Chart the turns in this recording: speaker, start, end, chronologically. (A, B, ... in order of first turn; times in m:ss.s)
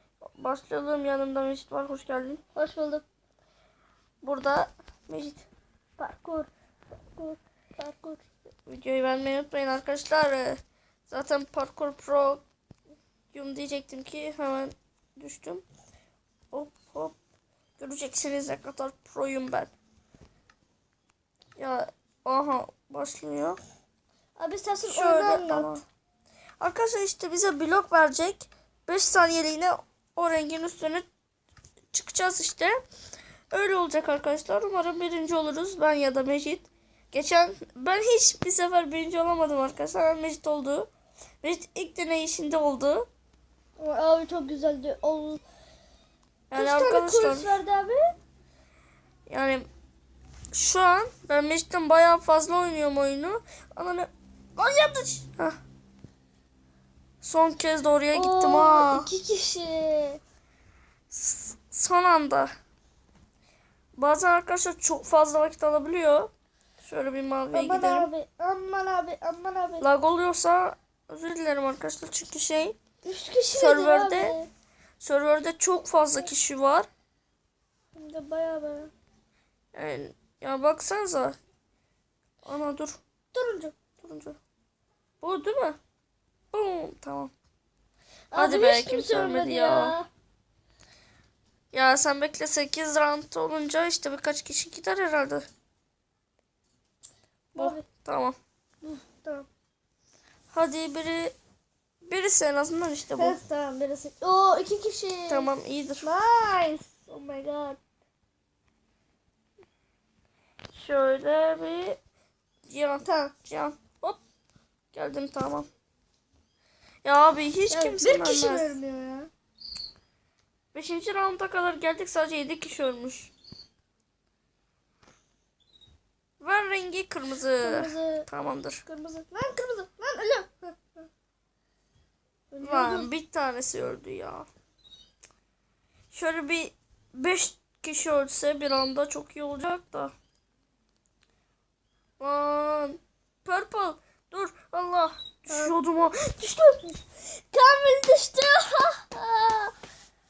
0:00.4-0:02.4 A
0:02.6-0:03.0 B
0:04.2-0:05.5 A
0:06.0-0:06.5 B
0:07.2-0:08.2 B
0:08.7-0:12.4 A
0:13.3-0:15.6 A
0:16.5-0:17.2 A
0:17.8-0:19.7 A
0:21.6-0:23.6 A
0:24.4-0:25.8 B
0:24.9-0:25.8 A
0:26.6-0:31.1 A
0:31.9-0:32.8 A
0:33.5-0:40.9 A
0:41.4-0:43.1 A
0:43.8-0:45.4 B
0:46.5-0:47.6 A
0:46.5-0:48.1 B
0:49.3-0:49.7 A
0:50.5-0:55.6 A
0:57.2-0:59.1 A
0:58.1-1:00.2 B
1:01.1-1:02.5 A
1:04.0-1:06.3 A
1:06.8-1:08.1 A
1:07.5-1:09.9 B
1:09.8-1:12.8 A
1:13.0-1:14.5 B
1:13.5-1:14.4 A
1:15.0-1:16.9 A
1:17.9-1:18.9 B
1:19.7-1:21.4 A
1:22.5-1:23.0 A
1:23.3-1:23.8 B
1:24.0-1:24.4 A
1:25.2-1:25.8 A
1:26.5-1:27.3 A
1:28.3-1:30.1 B
1:28.4-1:30.0 A
1:31.7-1:35.5 A
1:37.5-1:38.4 A
1:37.6-1:37.8 B
1:38.8-1:39.5 B
1:40.5-1:41.4 A
1:42.0-1:43.4 A
1:43.2-1:45.5 B
1:45.3-1:46.1 A
1:46.0-1:47.8 B
1:50.7-1:52.0 A
1:52.7-1:54.2 A
1:53.0-1:53.3 B
1:54.9-1:55.7 A
1:57.0-1:58.8 A
1:57.7-1:59.3 B
2:00.7-2:03.3 A
2:06.4-2:08.8 A
2:07.6-2:08.3 B
2:08.9-2:11.1 B
2:12.5-2:13.1 B
2:12.6-2:14.5 A
2:16.1-2:20.1 A
2:22.2-2:26.9 A
2:27.4-2:29.7 B